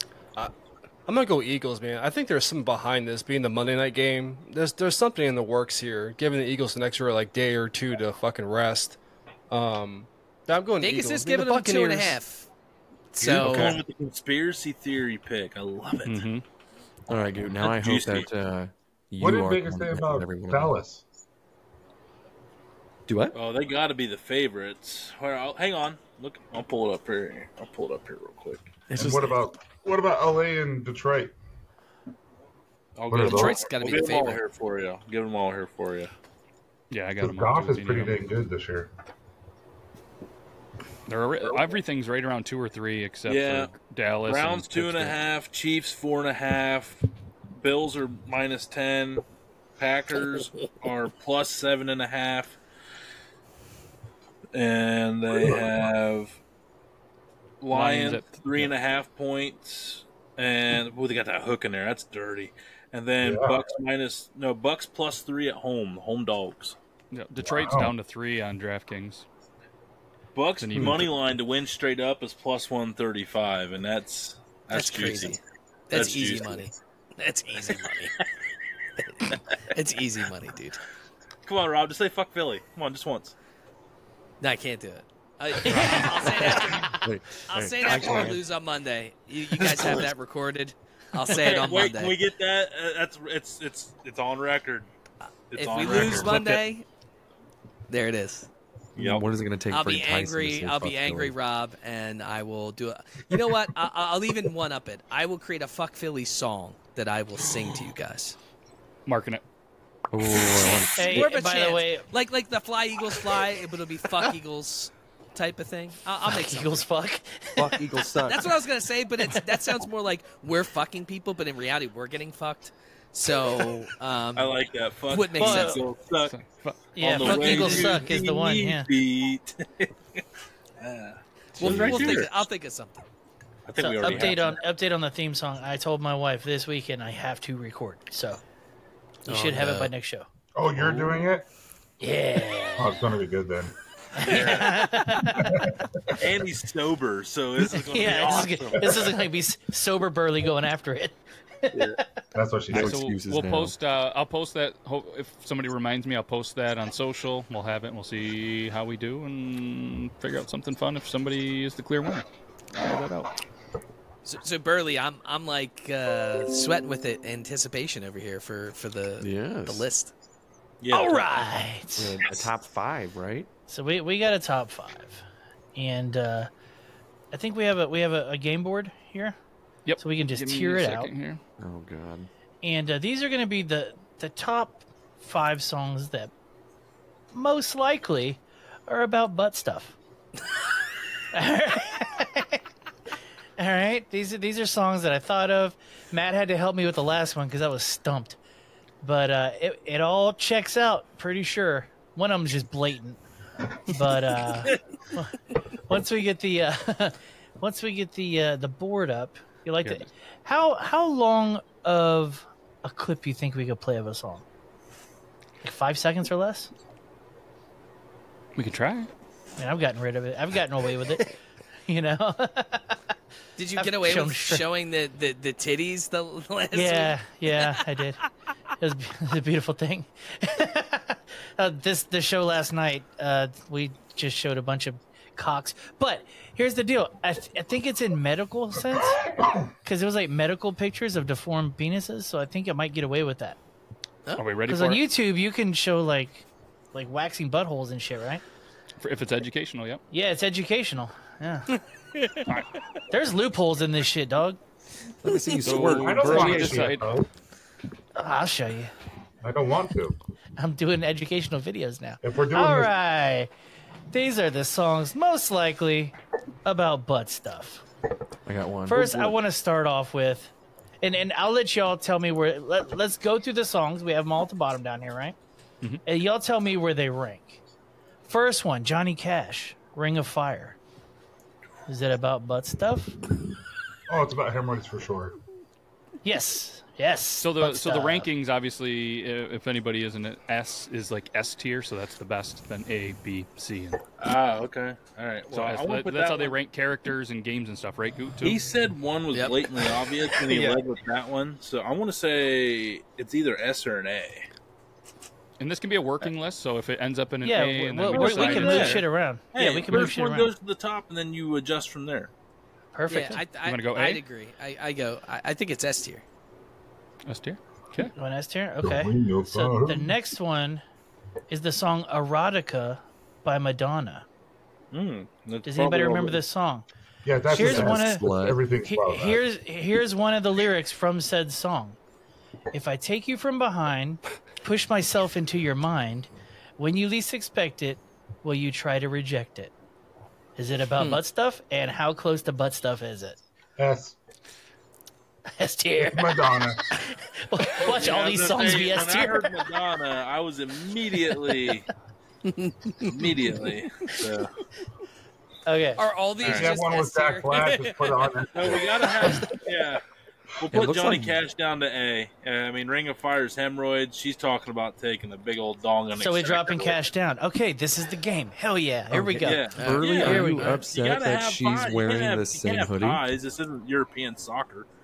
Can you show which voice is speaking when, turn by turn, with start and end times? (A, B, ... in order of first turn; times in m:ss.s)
0:01.1-0:09.0 A
0:09.5-0:12.1 A
0:10.8-0:12.5 B
0:11.8-0:12.1 C
0:13.1-0:13.8 B
0:13.2-0:13.6 A
0:13.2-0:16.2 D
0:16.0-0:16.4 E
0:17.1-0:20.8 F
0:17.6-0:18.3 D
0:19.2-0:21.0 G
0:23.1-0:23.4 F
0:23.3-0:28.7 D
0:28.9-0:31.3 G
0:28.9-0:29.3 F
0:29.1-0:29.4 B
0:33.0-0:36.1 D
0:33.1-0:33.6 G
0:33.2-0:34.4 B
0:36.9-0:38.2 E
0:37.2-0:38.9 G
0:41.1-0:45.2 E
0:43.3-0:43.7 D
0:44.3-0:47.0 D
0:47.6-0:49.2 D
0:49.8-0:52.6 D
0:54.5-0:56.4 D
0:55.4-0:55.7 G
0:57.6-1:06.8 D
0:57.7-0:58.4 E
1:03.2-1:03.6 G
1:07.1-1:09.3 E
1:07.4-1:07.9 G
1:10.4-1:15.4 D
1:10.6-1:11.2 E
1:14.7-1:18.1 B
1:15.9-1:16.7 D
1:19.7-1:20.8 B
1:21.5-1:23.4 D
1:24.4-1:32.2 B
1:25.7-1:26.2 C
1:26.8-1:28.5 F
1:29.7-1:30.1 D
1:31.2-1:34.9 D
1:35.2-1:36.9 B
1:35.5-1:36.6 D
1:37.9-1:38.5 B
1:39.0-1:39.2 D
1:39.0-1:41.4 F
1:39.7-1:48.4 B
1:49.1-1:49.4 E
1:50.1-1:51.3 F
1:51.0-1:52.1 C
1:51.0-1:56.8 B
1:56.3-1:57.9 C
1:57.6-1:58.7 F
1:58.3-2:05.8 B
2:04.4-2:06.3 D
2:05.4-2:05.8 C
2:06.3-2:07.8 E
2:07.0-2:08.9 C
2:07.0-2:10.2 D
2:07.3-2:07.9 B
2:10.8-2:12.4 D
2:11.6-2:13.0 B
2:11.6-2:12.2 F
2:11.6-2:12.2 G
2:13.7-2:14.6 D
2:13.8-2:18.4 C
2:19.3-2:20.3 C
2:19.3-2:19.9 B
2:20.6-2:21.5 G
2:22.0-2:23.0 C
2:22.8-2:23.7 G
2:24.2-2:25.7 C
2:24.2-2:25.1 D
2:25.4-2:26.2 G
2:26.2-2:29.1 D
2:27.7-2:32.0 C
2:31.7-2:32.0 D
2:32.4-2:33.0 G
2:32.7-2:43.3 E
2:32.7-2:33.8 F
2:44.2-2:50.1 B
2:49.2-2:49.9 F
2:50.8-2:51.2 D
2:50.9-2:52.2 C
2:52.0-2:53.5 F
2:53.7-2:55.2 C
2:55.8-2:56.5 C
2:57.3-2:59.4 C
2:59.9-3:01.4 E
3:00.0-3:01.1 C
3:01.6-3:02.3 F
3:02.6-3:06.3 C
3:07.3-3:10.0 C
3:11.3-3:12.6 C
3:13.6-3:18.4 C
3:19.0-3:23.2 C
3:23.8-3:34.4 C
3:35.6-3:36.7 C
3:38.6-3:39.1 E
3:39.6-3:41.3 C
3:41.9-3:43.0 C
3:43.6-3:47.8 B
3:43.8-3:44.7 C
3:46.7-3:48.2 C
3:48.8-3:59.2 C
3:59.8-4:03.6 C
4:04.4-4:05.0 E
4:04.7-4:08.4 C
4:09.0-4:10.0 E
4:10.1-4:11.8 C
4:12.2-4:12.5 B
4:13.1-4:14.6 C
4:15.2-4:17.0 F
4:15.6-4:17.1 E
4:15.9-4:17.3 G
4:18.2-4:18.9 C
4:19.4-4:20.2 G
4:20.6-4:23.5 C
4:22.2-4:22.9 G
4:24.1-4:27.8 C
4:28.5-4:29.4 F
4:28.9-4:35.4 C
4:36.0-4:37.6 C
4:38.3-4:40.8 C
4:41.9-4:43.2 C
4:44.1-4:45.4 G
4:46.2-4:48.3 C
4:47.4-4:54.0 E
4:54.2-4:56.6 D
4:55.5-4:58.6 E
4:58.4-5:04.5 D
4:59.3-4:59.7 B
5:05.6-5:09.1 E
5:07.4-5:10.5 C
5:08.1-5:12.3 D
5:12.9-5:13.4 C
5:13.1-5:16.2 B
5:13.6-5:14.2 E
5:17.3-5:18.1 E
5:18.2-5:20.8 C
5:18.8-5:20.1 G
5:21.5-5:24.3 C
5:24.9-5:26.4 D
5:25.6-5:26.8 C
5:27.2-5:29.4 G
5:27.5-5:28.3 C
5:27.5-5:28.6 F
5:28.8-5:32.0 C
5:32.7-5:39.7 C
5:40.6-5:43.4 C
5:43.8-5:44.2 G
5:45.6-5:46.4 C
5:46.0-5:46.8 G
5:47.0-5:49.5 C
5:47.8-5:51.9 D
5:52.5-5:53.1 B
5:53.0-5:54.5 D
5:55.7-5:56.0 C
5:56.0-5:58.3 B
5:56.4-5:56.7 D
5:56.4-5:59.5 G
5:58.5-6:00.0 D
6:00.6-6:07.0 D
6:00.7-6:01.4 F
6:06.2-6:10.8 C
6:09.1-6:13.2 F
6:09.4-6:14.9 D
6:09.8-6:10.7 B